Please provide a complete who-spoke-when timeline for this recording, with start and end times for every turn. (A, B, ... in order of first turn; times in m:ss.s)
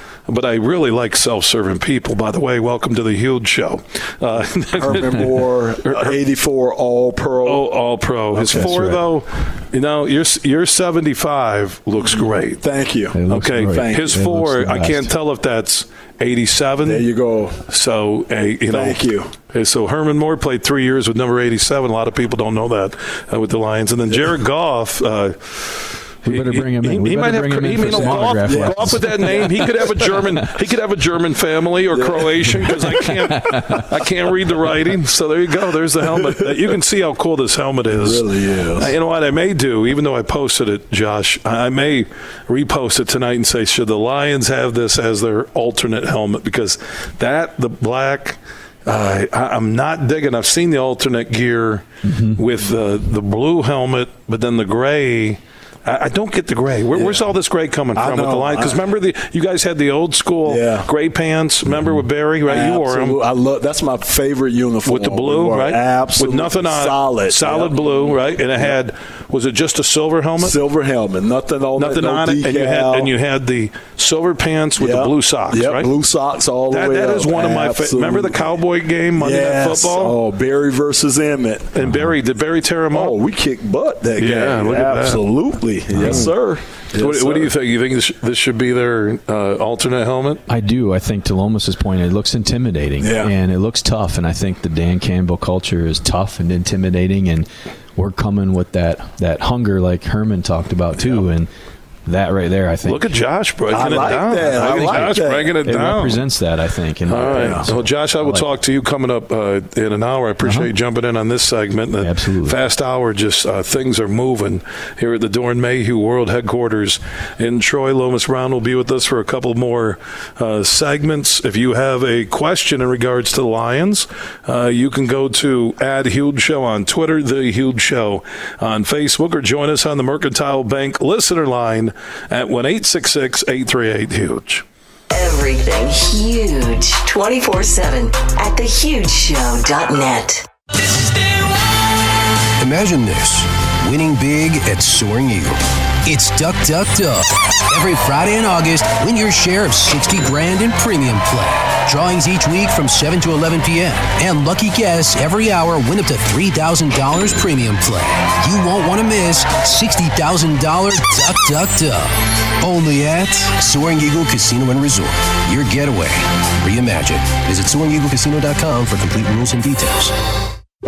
0:00.3-0:06.2 A
0:04.8-0:07.7 B
0:07.4-0:12.6 A
0:08.4-0:09.0 C
0:08.4-0:08.8 B
0:12.6-0:14.2 B
0:13.1-0:15.1 C
0:13.3-0:17.1 A
0:16.8-0:17.6 B
0:17.7-0:38.3 A
0:18.7-0:19.3 B
0:26.2-0:30.4 C
0:27.8-0:29.8 B
0:31.9-0:32.9 B
0:33.2-0:33.9 C
0:36.2-0:36.5 B
0:37.9-0:38.9 B
0:38.8-1:03.2 A
0:52.1-0:52.4 C
0:56.9-0:57.3 B
0:58.0-0:58.8 B
1:00.4-1:00.9 B
1:02.5-1:08.8 B
1:04.9-1:10.6 A
1:10.4-1:13.1 B
1:11.8-1:15.9 A
1:14.8-1:18.5 B
1:16.7-1:20.2 A
1:19.2-1:21.8 B
1:21.7-1:23.2 A
1:21.8-1:22.1 C
1:22.9-1:27.5 B
1:24.2-1:25.2 A
1:25.9-1:26.3 C
1:26.0-1:26.3 A
1:27.0-1:30.4 A
1:30.5-1:41.5 C
1:33.0-1:33.3 B
1:42.1-1:43.2 C
1:42.9-1:46.2 A
1:43.7-1:45.6 B
1:44.4-1:48.5 C
1:47.1-2:14.6 A
1:47.3-1:47.7 B
1:50.4-1:50.7 C
1:52.0-1:52.6 C
2:15.1-2:20.5 D
2:22.6-2:50.2 E